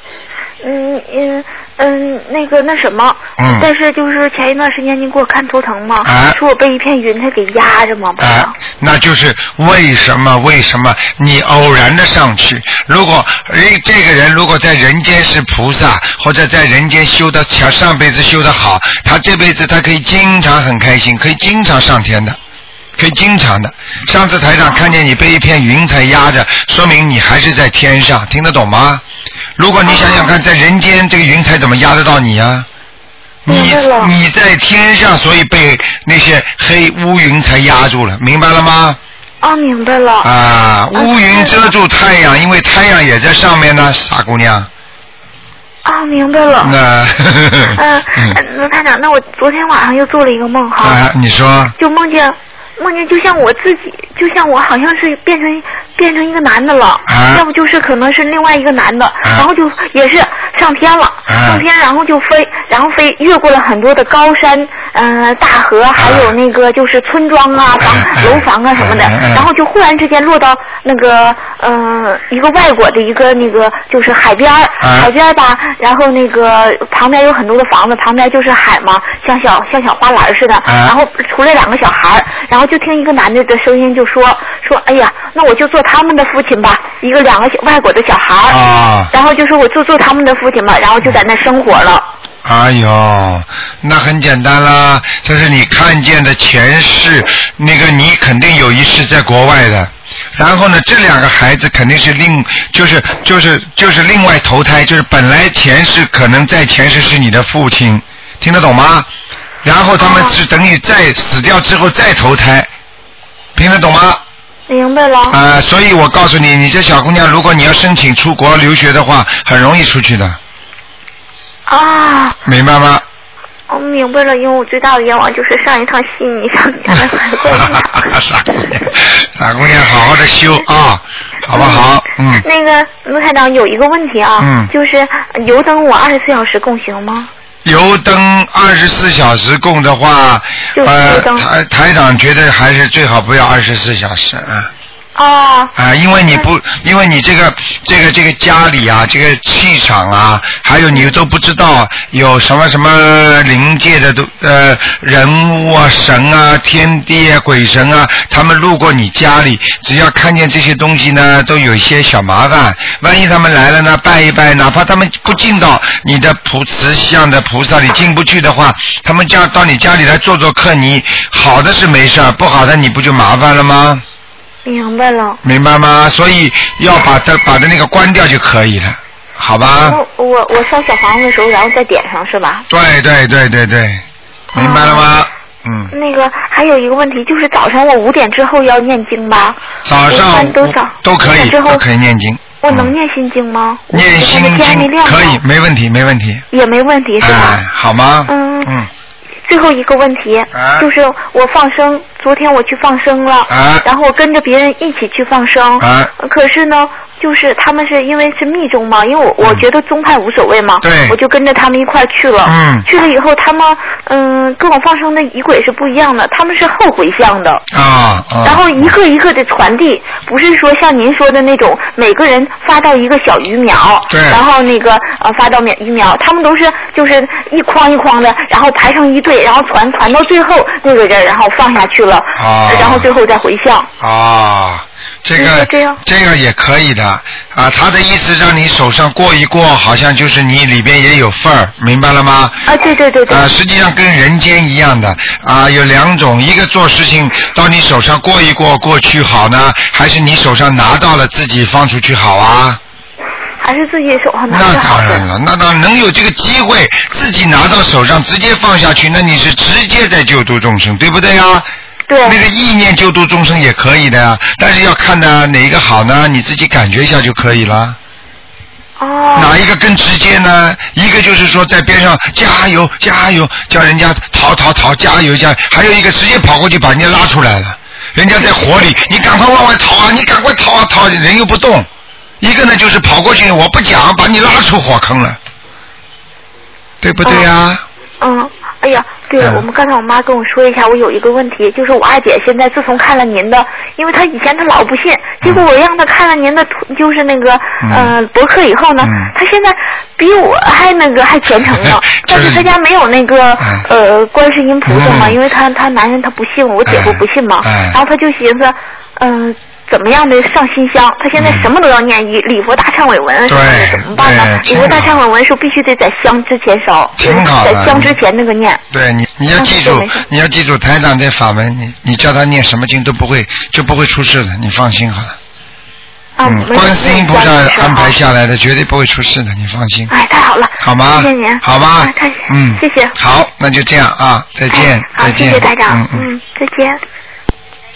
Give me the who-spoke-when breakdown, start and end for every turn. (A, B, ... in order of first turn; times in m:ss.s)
0:00.6-0:08.5 A
0:03.4-0:03.7 B
0:06.0-0:06.4 B
0:08.2-0:22.4 B
0:23.0-0:29.0 B
0:29.6-0:32.7 B
0:29.9-0:30.3 A
0:33.4-0:39.0 B
0:33.5-0:34.1 A
0:39.4-0:40.3 A
0:40.2-0:44.7 B
0:40.9-0:41.7 A
0:45.8-0:46.8 A
0:46.6-0:48.4 B
0:47.7-0:51.0 A
0:50.8-0:51.8 B
0:51.8-1:28.6 A
0:57.1-0:57.4 B
1:01.3-1:01.6 B
1:06.0-1:06.4 B
1:07.8-1:09.5 B
1:14.8-1:15.1 B
1:20.7-1:21.0 B
1:28.5-1:29.1 B
1:29.1-1:32.1 A
1:32.4-1:49.1 B
1:49.6-1:52.7 B
1:50.0-1:50.4 A
1:53.6-1:54.2 B
1:54.7-1:55.4 A
1:55.3-2:00.4 B
2:01.7-2:02.4 A
2:02.4-2:03.0 B
2:03.7-2:08.1 A
2:07.0-2:12.4 B
2:11.5-2:17.3 A
2:14.4-2:14.7 B
2:17.6-2:24.7 B
2:20.8-2:21.5 A
2:25.2-2:25.7 A
2:25.8-2:54.0 B
2:54.6-2:55.4 A
2:55.4-3:00.0 B
2:59.8-3:02.7 A
3:02.7-3:04.0 B
3:04.5-3:05.1 A
3:04.6-3:05.9 B
3:05.9-3:11.8 A
3:09.8-3:12.9 B
3:12.6-3:15.4 A
3:13.9-3:16.4 B
3:16.5-3:17.6 A
3:17.2-3:18.9 B
3:18.3-3:18.7 A
3:19.5-3:37.6 A
3:20.5-3:20.9 B
3:23.5-3:23.9 B
3:25.8-3:26.1 B
3:30.8-3:31.2 B
3:32.4-3:32.8 B
3:37.7-3:38.9 B
3:38.4-3:53.9 A
3:44.1-3:44.4 B
3:52.4-3:53.1 B
3:54.0-4:02.6 B
3:55.4-3:56.0 A
4:02.7-4:03.5 A
4:03.3-4:12.8 B
4:13.6-4:15.2 A
4:14.5-4:21.7 B
4:22.1-4:22.4 A
4:22.2-4:28.0 B
4:29.0-4:29.6 A
4:29.4-4:41.9 B
4:42.4-4:45.4 B
4:47.0-4:47.8 B
4:47.2-4:47.5 A
4:48.2-5:18.8 A
4:49.4-4:49.6 B
4:57.8-4:58.2 B
4:59.0-4:59.3 B
5:02.3-5:02.7 B
5:03.6-5:03.9 B
5:04.9-5:05.4 B
5:06.9-5:08.0 B
5:11.3-5:11.7 B
5:13.5-5:15.2 B
5:17.2-5:18.2 B
5:18.9-5:25.4 B
5:19.6-5:20.2 A
5:26.4-5:28.2 A
5:26.4-5:30.1 B
5:30.1-5:33.2 A
5:30.8-5:36.3 B
5:34.7-5:37.0 A